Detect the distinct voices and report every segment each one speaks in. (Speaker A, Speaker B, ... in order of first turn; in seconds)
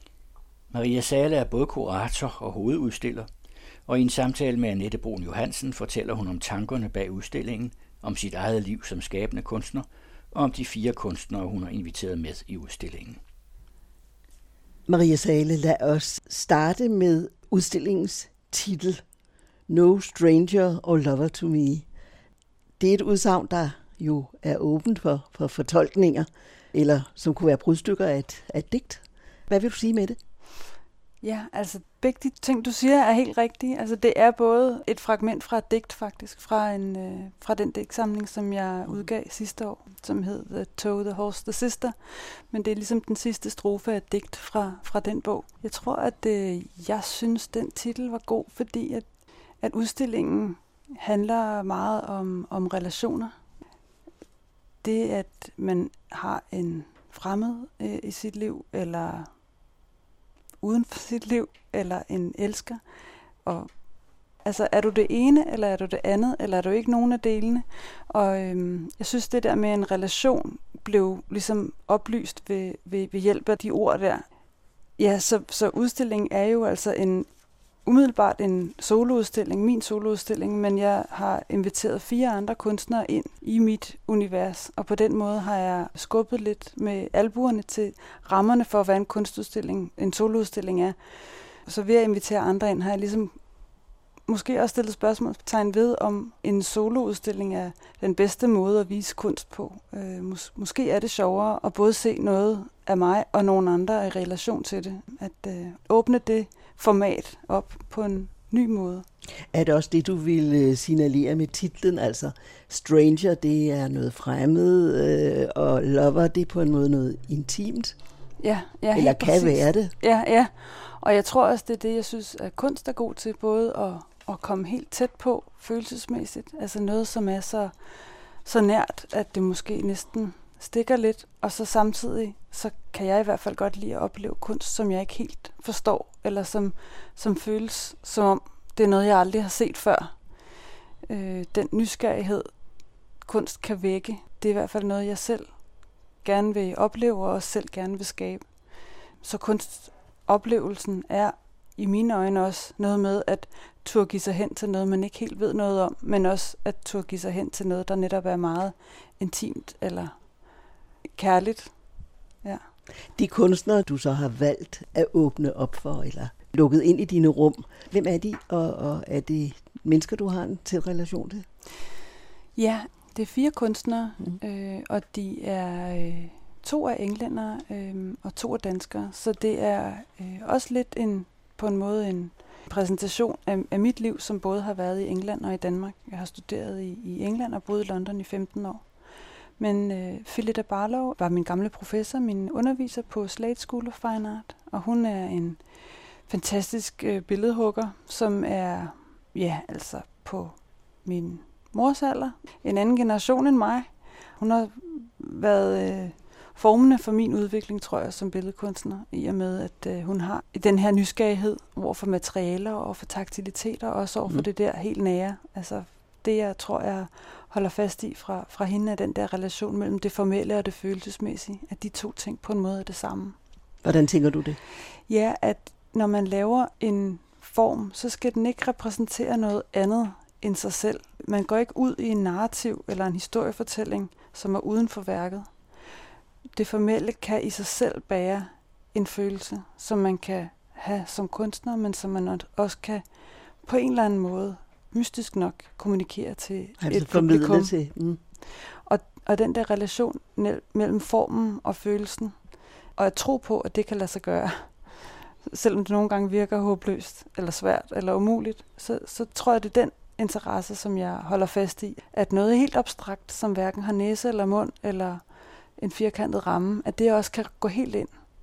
Speaker A: 0.7-3.3, 3.9-13.2
Speaker B: 14.9-19.0, 19.7-21.9, 22.8-30.2, 109.5-118.0, 118.9-119.9, 163.2-171.4, 223.8-224.6, 246.8-248.2
Speaker C: 31.2-49.0, 49.6-53.3, 54.8-59.3, 60.6-62.8, 63.4-63.7, 64.4-74.3, 75.0-77.3, 77.8-93.4, 94.3-109.0, 118.4-127.7, 128.4-140.1, 141.1-142.5, 143.2-145.5, 146.2-148.4, 149.2-160.1, 161.1-161.7, 172.6-188.8, 189.6-195.6, 196.2-223.3, 225.1-235.5, 236.5-243.1, 243.6-247.7, 248.4-252.4, 252.9-265.2, 265.8-268.1